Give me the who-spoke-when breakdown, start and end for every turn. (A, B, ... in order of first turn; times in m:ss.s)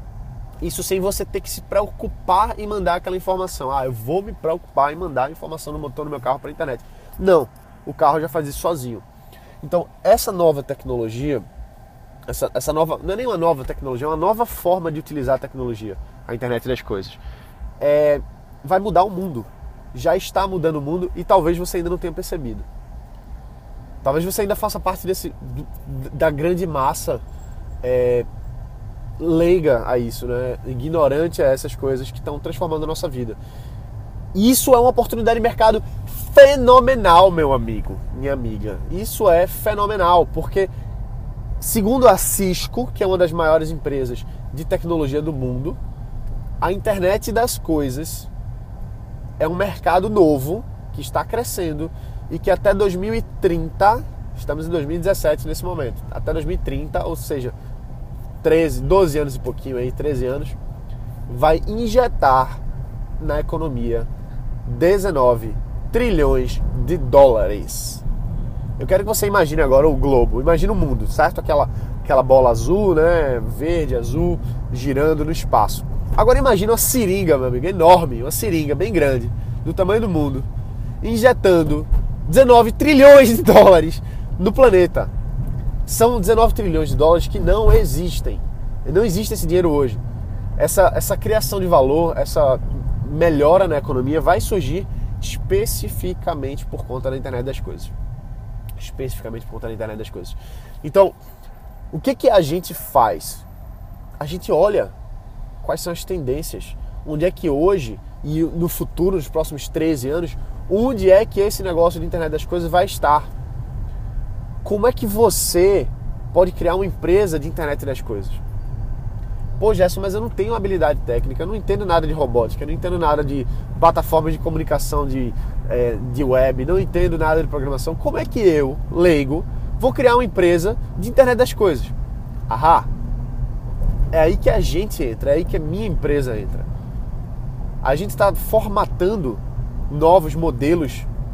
0:00.6-0:09.0 A
0:09.6-0:11.5 A
0:12.3-0:17.2 A
0:17.8-0:22.7 A
0:24.0-0:27.2 A
0:27.8-0:28.3 A
0:29.2-0:33.4 A
0:34.3-0:40.7 A
0:41.6-0:45.8 A
0:46.6-0:48.3 A
0:49.4-0:57.5 A
0:58.4-1:00.6 A
1:01.3-1:02.6 A
1:03.2-1:04.1 A
1:04.6-1:08.0 A
1:08.8-1:20.5 A
1:21.0-1:25.1 A
1:25.8-1:30.0 A
1:30.6-1:37.9 A
1:38.8-1:41.2 A
1:41.9-1:43.4 A
1:44.2-1:44.9 A
1:45.6-1:53.3 A
1:54.6-1:58.4 A
1:59.6-2:11.9 A
2:12.5-2:12.9 A
2:14.1-2:16.7 A
2:17.8-2:21.1 A